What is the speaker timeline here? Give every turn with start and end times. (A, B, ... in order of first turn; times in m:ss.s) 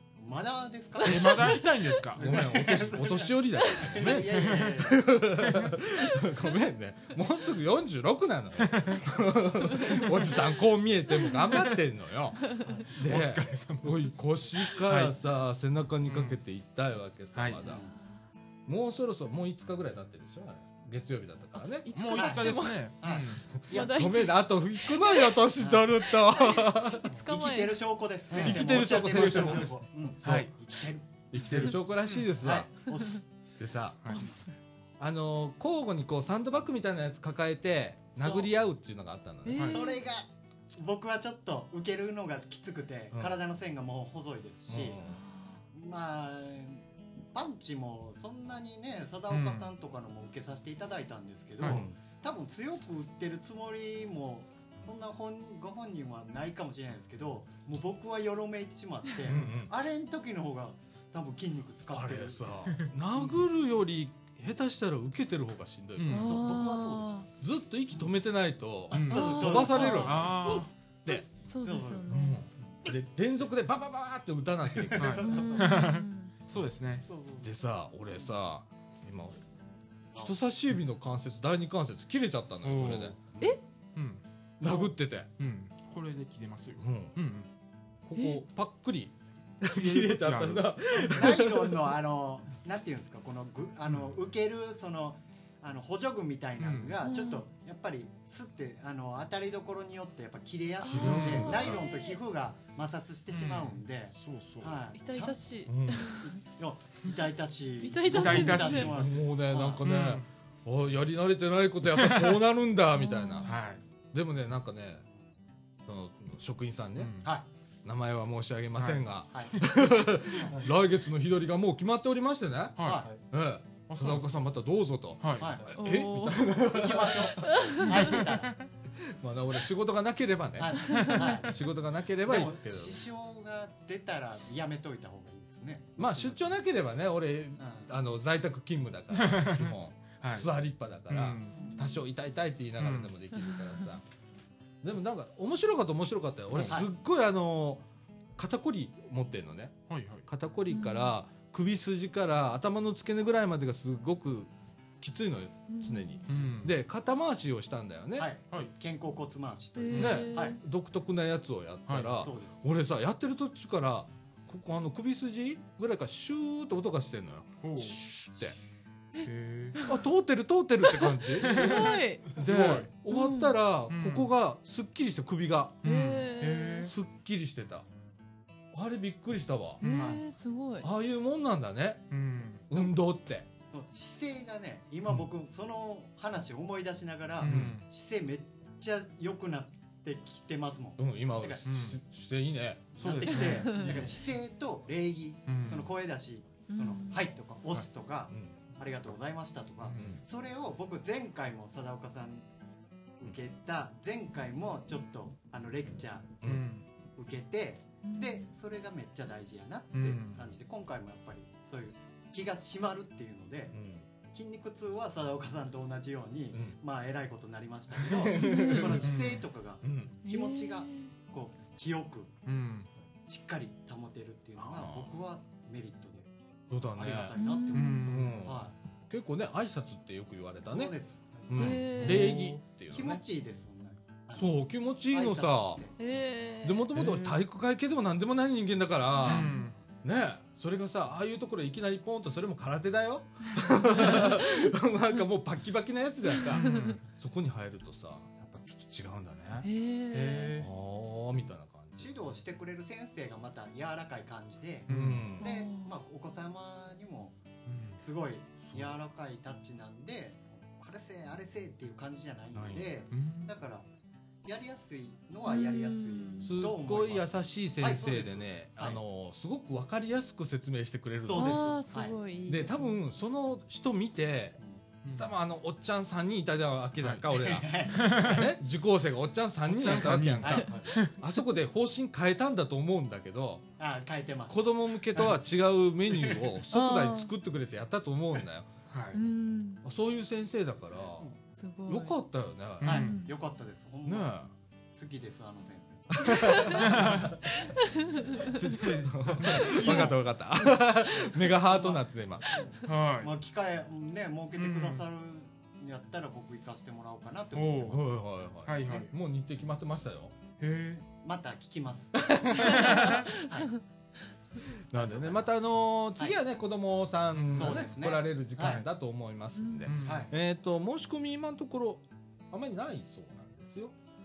0:00.2-0:01.6 A
0:01.0-0:02.2 B
0:02.1-0:05.0 A
0:02.2-0:17.8 C
0:04.2-0:04.7 B
0:05.4-0:05.7 B
0:08.6-0:09.0 B
0:11.5-0:11.8 B
0:12.9-0:14.2 B
0:14.7-0:15.1 B
0:16.0-0:16.4 B
0:17.3-0:17.6 B
0:17.6-0:17.9 A
0:18.7-0:21.9 C
0:21.8-0:22.9 D
0:21.9-0:23.5 B
0:22.1-0:23.9 A
0:23.7-0:25.4 D
0:23.7-0:27.1 C
0:25.6-0:25.9 A
0:26.5-0:27.8 D
0:27.1-0:31.0 A
0:28.3-0:30.5 B
0:28.4-0:30.5 C
0:31.3-0:32.9 C
0:31.5-0:32.3 B
0:32.4-0:33.2 A
0:33.6-0:34.2 C
0:34.1-0:34.5 D
0:35.0-0:39.7 C
0:38.2-0:38.5 A
0:39.4-0:40.0 D
0:39.6-0:39.8 B
0:39.7-0:45.0 A
0:43.1-0:43.4 C
0:44.7-0:45.2 C
0:45.1-0:45.6 D
0:45.7-0:46.8 A
0:47.3-1:02.5 A
0:49.3-0:49.7 B
0:51.6-0:52.0 C
0:59.2-0:59.7 C
1:01.9-1:06.6 C
1:06.0-1:06.4 B
1:06.1-1:07.3 D
1:06.3-1:07.2 A
1:07.4-1:10.4 C
1:08.9-1:10.7 B
1:09.0-1:10.6 A
1:09.1-1:10.0 D
1:11.4-1:12.4 D
1:11.6-1:12.1 A
1:12.1-1:15.5 C
1:15.0-1:17.1 B
1:15.1-1:15.6 A
1:15.2-1:16.3 D
1:17.1-1:17.5 A
1:17.4-1:19.4 C
1:20.2-1:23.2 C
1:22.6-1:23.2 B
1:24.0-1:24.2 B
1:24.6-1:25.3 C
1:24.6-1:24.9 A
1:25.4-1:27.5 B
1:26.8-1:27.2 C
1:28.1-1:31.9 C
1:29.7-1:31.1 B
1:31.1-1:45.4 A
1:36.6-1:36.9 B
1:37.0-1:37.4 D
1:40.8-1:42.2 D
1:40.9-1:41.8 C
1:40.9-1:41.6 B
1:43.3-1:44.8 B
1:45.0-1:46.3 D
1:45.7-1:46.2 C
1:46.1-1:49.8 A
1:47.8-1:48.9 D
1:48.1-1:49.0 B
1:48.8-1:53.5 C
1:49.8-1:50.2 B
1:52.0-1:52.4 B
1:53.0-1:53.5 D
1:53.4-1:53.8 B
1:54.1-1:55.0 C
1:55.9-1:57.2 C
1:57.0-1:57.3 B
1:57.8-2:07.8 C
1:58.8-1:59.0 B
2:02.8-2:03.0 B
2:02.8-2:03.1 A
2:03.9-2:04.4 B
2:05.2-2:05.5 B
2:05.4-2:05.7 A
2:05.8-2:06.5 D
2:06.5-2:08.6 A
2:07.4-2:08.2 D
2:07.9-2:08.6 B
2:09.0-2:13.0 C
2:10.6-2:11.5 A
2:10.9-2:11.4 B
2:12.2-2:16.5 A
2:16.0-2:24.0 C
2:17.6-2:17.9 A
2:19.1-2:20.5 B
2:21.1-2:21.6 B
2:22.8-2:23.1 B
2:24.8-2:27.8 C
2:26.5-2:26.8 B
2:28.4-2:38.3 C
2:29.9-2:30.3 B
2:30.7-2:31.1 D
2:35.7-2:36.3 D
2:36.3-2:36.7 B
2:38.2-2:40.6 A
2:39.8-2:40.6 D
2:39.9-2:40.2 B
2:40.0-2:48.6 C
2:41.9-2:42.3 B
2:42.2-2:42.6 A
2:47.6-2:48.0 B
2:49.2-2:50.0 D
2:49.2-2:49.8 B
2:49.8-2:55.8 C
2:51.0-2:52.4 D
2:51.4-2:52.9 B
2:53.1-2:53.6 D
2:53.9-2:54.3 B
2:55.8-2:56.9 D
2:55.8-2:56.9 B
2:56.8-2:57.9 C
2:58.7-2:59.8 C
2:59.8-3:00.1 B
2:59.8-3:00.9 D
2:59.9-3:00.2 A
3:00.8-3:02.1 C
3:02.1-3:02.6 B
3:02.7-3:03.5 C
3:03.7-3:11.6 A
3:07.4-3:07.8 B
3:07.4-3:07.8 C
3:11.0-3:13.4 C
3:11.7-3:12.0 B
3:13.0-3:14.0 B
3:13.0-3:22.4 A
3:13.4-3:14.0 D
3:15.5-3:15.9 B
3:16.7-3:17.3 D
3:18.3-3:18.6 C
3:20.0-3:20.2 C
3:23.2-3:26.3 A
3:26.4-3:26.7 C
3:26.4-3:26.8 B
3:27.2-3:33.8 A
3:28.0-3:28.5 D
3:29.9-3:30.4 B
3:33.7-3:34.1 C
3:34.3-3:42.3 A
3:36.5-3:36.8 C
3:38.0-3:39.1 C
3:38.3-3:39.0 D
3:39.0-3:39.4 B
3:39.8-3:40.2 C
3:40.2-3:41.1 D
3:42.5-3:42.9 B
3:43.3-3:46.3 A
3:44.6-3:45.2 C
3:46.7-3:47.4 C
3:47.0-3:48.7 A
3:47.4-3:48.2 D
3:47.7-3:48.4 B
3:48.0-3:50.9 C
3:50.6-3:56.0 A
3:51.5-3:53.2 C
3:51.5-3:52.5 D
3:52.0-3:52.3 B
3:54.4-3:55.8 C
3:56.0-3:56.9 D
3:56.6-3:59.5 C
3:57.0-3:57.4 B
3:59.2-3:59.7 B
4:00.0-4:09.7 C
4:06.5-4:07.0 D
4:06.5-4:07.0 B
4:09.6-4:10.6 D
4:10.1-4:10.5 B
4:10.5-4:12.2 C
4:12.0-4:17.4 A
4:14.9-4:15.3 B
4:14.9-4:15.5 C
4:15.4-4:15.9 D
4:17.6-4:18.0 B
4:18.0-4:23.9 A
4:18.6-4:19.0 C
4:22.5-4:22.9 C
4:23.1-4:23.5 B
4:24.4-4:29.0 A
4:25.5-4:26.6 D
4:26.4-4:31.7 C
4:31.2-4:32.2 A
4:31.3-4:33.0 D
4:32.5-4:34.6 C
4:35.0-4:35.3 B
4:35.2-4:43.7 C
4:37.0-4:37.3 B
4:37.3-4:38.4 A
4:37.9-4:38.5 B
4:39.7-4:41.2 B
4:40.4-4:40.9 A
4:43.8-4:45.4 A
4:44.5-4:48.7 C
4:46.7-4:47.3 D
4:48.9-4:49.2 B
4:49.1-4:49.8 D
4:49.8-4:51.3 C
4:51.6-4:52.2 D
4:51.9-4:53.0 C
4:52.8-4:53.2 B
4:52.8-4:54.3 A
4:52.9-4:53.3 D
4:54.0-4:54.5 C
4:55.0-4:56.9 A
4:56.1-4:57.3 C
4:56.7-4:57.3 B
4:57.8-4:58.5 D
4:58.5-5:00.2 B
4:58.8-5:02.6 C
5:01.3-5:08.1 A
5:02.8-5:03.3 B
5:04.6-5:05.0 B
5:07.5-5:08.0 B
5:07.9-5:10.4 C
5:08.6-5:09.1 B
5:10.6-5:11.0 B
5:11.0-5:13.8 A
5:12.3-5:12.8 C
5:12.7-5:13.1 B
5:12.7-5:13.8 D
5:14.9-5:24.0 C
5:14.9-5:16.4 A
5:17.3-5:17.9 B
5:17.5-5:18.8 A
5:19.6-5:19.9 D
5:19.9-5:20.3 B
5:20.0-5:20.3 A